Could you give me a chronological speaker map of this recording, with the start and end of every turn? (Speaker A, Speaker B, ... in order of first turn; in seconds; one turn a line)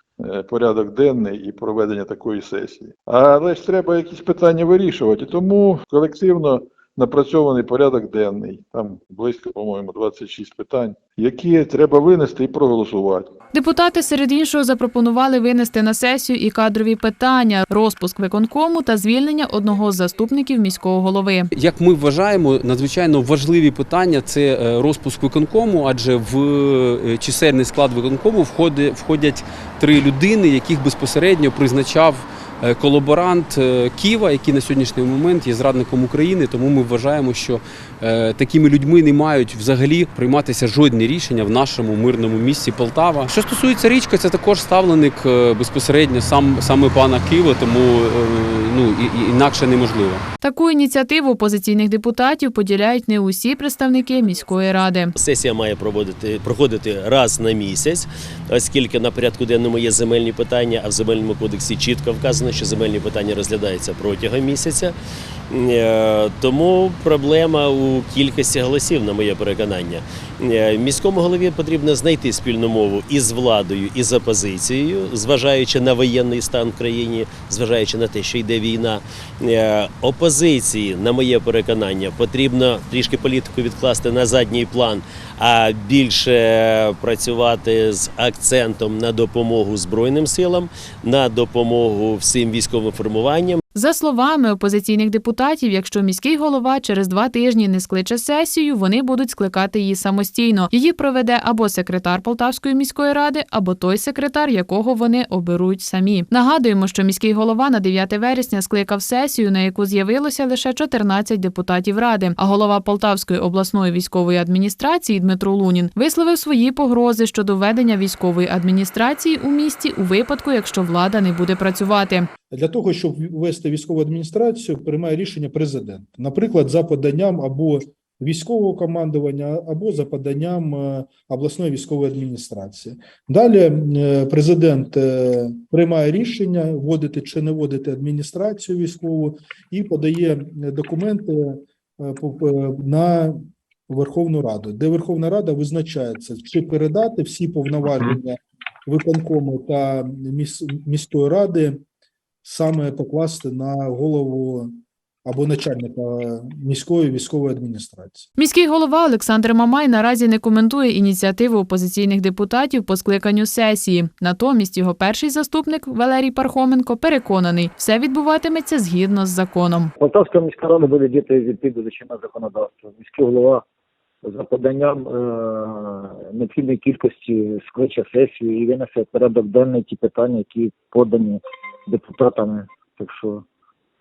Speaker A: 0.2-13.3
Speaker B: 13.5-21.5
Speaker C: 21.5-50.2
Speaker B: 50.4-55.1
Speaker D: 55.2-64.9
Speaker D: 65.5-93.6
Speaker B: 93.7-122.3
Speaker E: 122.5-151.8
Speaker E: 152.4-154.7
Speaker E: 155.2-158.3
Speaker B: 158.4-169.9
Speaker F: 170.0-173.6
Speaker F: 174.2-183.4